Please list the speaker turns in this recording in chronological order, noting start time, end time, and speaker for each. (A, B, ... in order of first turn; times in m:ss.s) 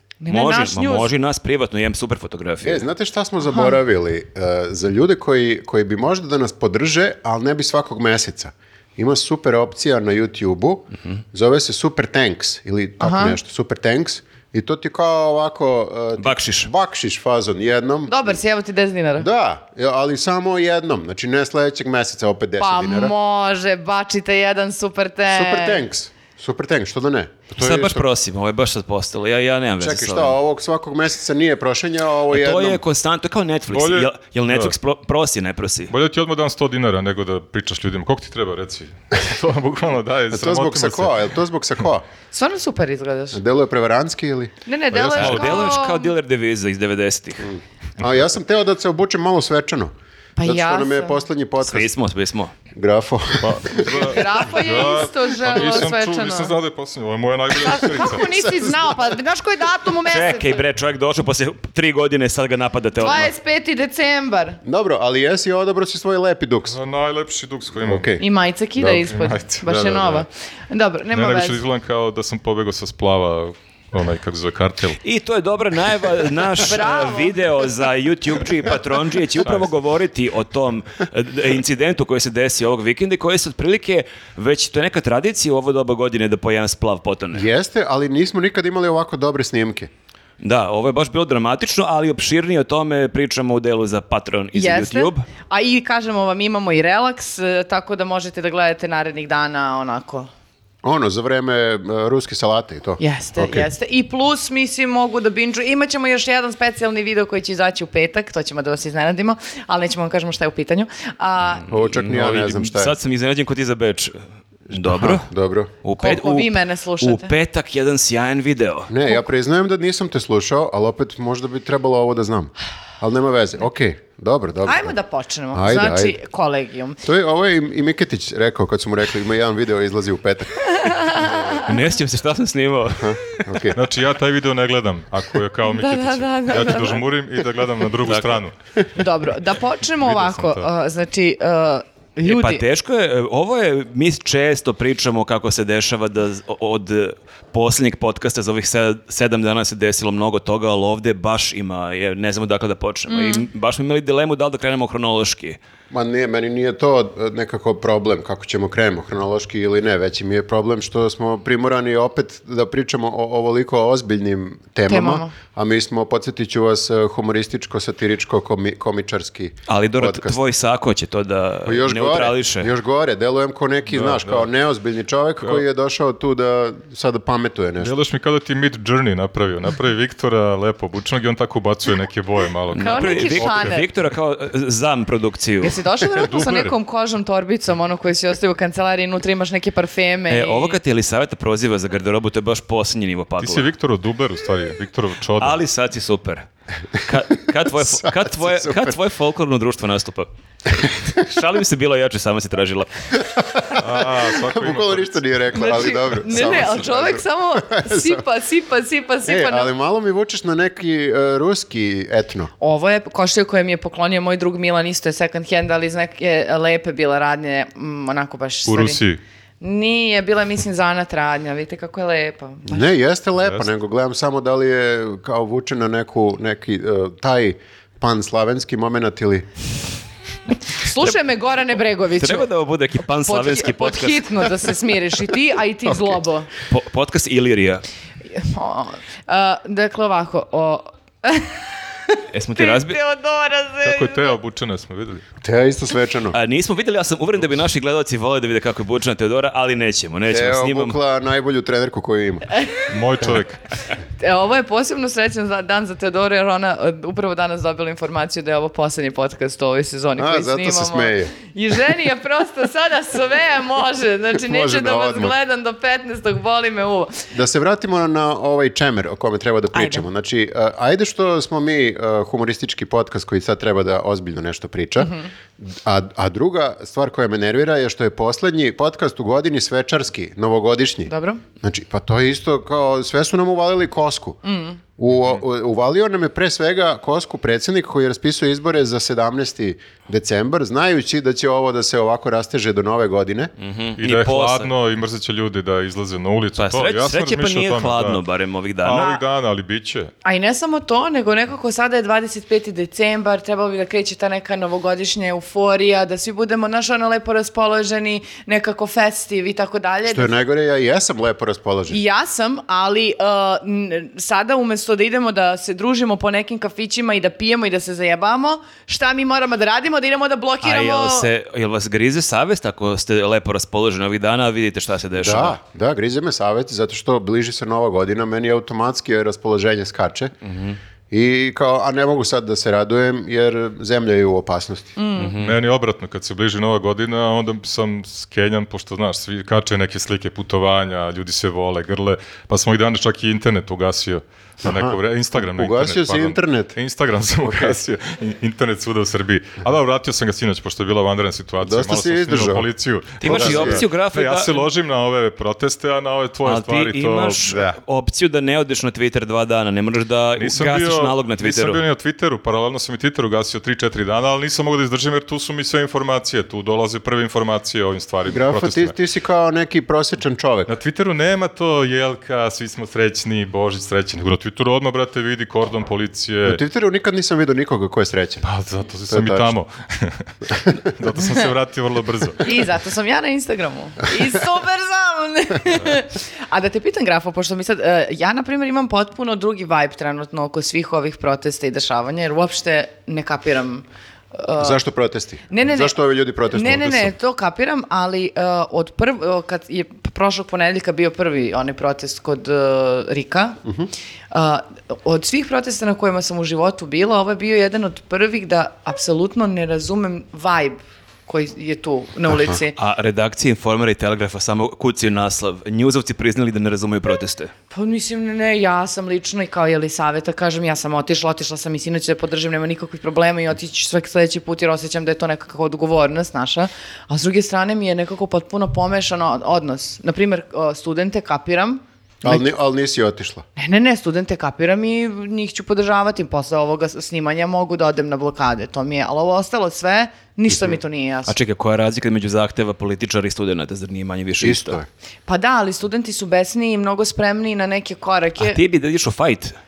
0:00.2-0:01.1 A
0:00.3-0:02.8 B
0:02.6-0:18.4 C
0:03.4-0:03.8 A
0:13.0-0:13.4 A
0:16.2-0:16.7 B
0:18.1-0:19.3 A
0:19.2-0:23.1 C
0:22.6-0:25.8 A
0:25.3-0:28.1 C
0:27.6-0:30.4 B
0:29.8-0:32.8 C
0:32.3-0:35.9 B
0:33.7-0:34.8 D
0:35.9-0:41.2 D
0:40.3-0:42.0 C
0:42.3-0:43.4 A
0:43.3-0:44.5 C
0:44.7-0:46.1 A
0:44.9-0:45.8 D
0:45.2-0:47.5 B
0:47.4-0:51.9 C
0:50.4-0:51.2 A
0:51.6-0:52.5 B
0:52.7-0:54.2 C
0:53.4-0:58.7 D
0:54.0-0:56.5 A
0:57.6-1:00.6 A
0:58.1-0:58.8 C
1:00.1-1:03.3 B
1:03.0-1:04.6 A
1:04.6-1:06.8 C
1:06.7-1:08.2 D
1:07.8-1:08.2 C
1:08.2-1:11.6 A
1:08.8-1:10.3 D
1:11.1-1:15.0 D
1:15.0-1:27.5 B
1:16.6-1:17.6 A
1:27.3-1:29.9 C
1:30.4-1:35.2 B
1:34.5-1:40.3 A
1:40.8-1:43.7 C
1:43.0-1:51.7 A
1:51.7-1:53.0 C
1:51.9-1:54.2 B
1:54.7-1:55.3 B
1:54.7-1:55.7 C
1:55.8-1:58.9 B
1:56.0-1:57.3 A
1:58.9-2:04.9 C
2:04.7-2:07.0 A
2:05.5-2:06.2 C
2:07.0-2:11.6 C
2:10.6-2:11.7 A
2:11.6-2:13.5 B
2:13.0-2:13.8 C
2:13.8-2:18.6 D
2:15.7-2:17.0 A
2:18.1-2:18.4 B
2:19.0-2:22.6 A
2:20.0-2:20.7 D
2:22.3-2:35.6 B
2:33.1-2:33.5 A
2:35.9-2:50.4 C
2:44.9-2:45.3 A
2:49.7-2:52.7 B
2:51.7-2:57.9 C
2:53.9-2:54.5 D
2:57.8-3:03.8 D
3:02.7-3:05.8 B
3:02.8-3:03.8 A
3:05.6-3:10.8 A
3:06.1-3:06.8 D
3:10.3-3:13.7 B
3:13.4-3:15.6 D
3:15.4-3:16.5 B
3:17.0-3:22.9 B
3:17.8-3:19.0 C
3:23.5-3:28.2 C
3:23.7-3:25.2 D
3:25.5-3:29.7 A
3:29.3-3:32.5 C
3:32.6-3:39.0 A
3:38.7-3:39.2 D
3:39.6-3:42.8 A
3:42.7-3:49.5 C
3:50.8-3:52.5 A
3:52.2-3:54.7 B
3:53.0-3:56.5 A
3:56.7-3:57.8 B
3:58.3-4:04.3 A
4:02.3-4:03.0 B
4:03.8-4:05.3 D
4:05.4-4:06.4 C
4:06.3-4:11.0 B
4:10.3-4:12.5 C
4:12.9-4:13.6 D
4:14.2-4:27.2 A
4:20.2-4:21.3 C
4:24.4-4:25.4 C
4:27.3-4:44.4 C
4:29.7-4:30.0 A
4:35.0-4:35.3 A
4:41.1-4:41.4 A
4:44.4-4:44.8 A
4:45.0-4:53.5 C
4:53.6-4:54.7 B
4:54.0-4:58.2 D
4:56.6-4:59.1 B
4:58.8-5:00.1 D
4:58.9-4:59.2 A
5:00.2-5:10.3 A
5:10.1-5:12.0 C
5:11.9-5:21.3 A
5:20.6-5:25.6 B
5:25.2-5:30.3 C
5:30.5-5:30.8 B
5:31.1-5:35.0 C
5:35.0-5:35.4 A
5:35.2-5:35.6 B
5:35.4-5:57.8 D
5:44.6-5:46.8 C
5:47.4-5:47.8 C
5:51.6-5:52.7 C
5:53.2-5:54.6 B
5:53.2-5:53.8 C
5:56.4-6:01.8 B
6:00.4-6:08.9 D
6:08.3-6:10.7 C
6:10.7-6:16.6 D
6:16.4-6:18.5 C
6:18.4-6:22.5 D
6:19.1-6:19.5 C
6:22.4-6:34.8 A
6:34.6-6:37.1 C
6:35.5-6:36.0 A
6:36.5-6:43.6 A
6:44.3-6:52.8 A
6:52.8-6:57.5 B
6:57.7-7:12.4 A
7:12.2-7:13.4 C
7:13.6-7:21.4 A
7:21.3-7:24.8 B
7:24.4-7:24.9 C
7:25.3-7:28.6 A
7:28.4-7:29.6 B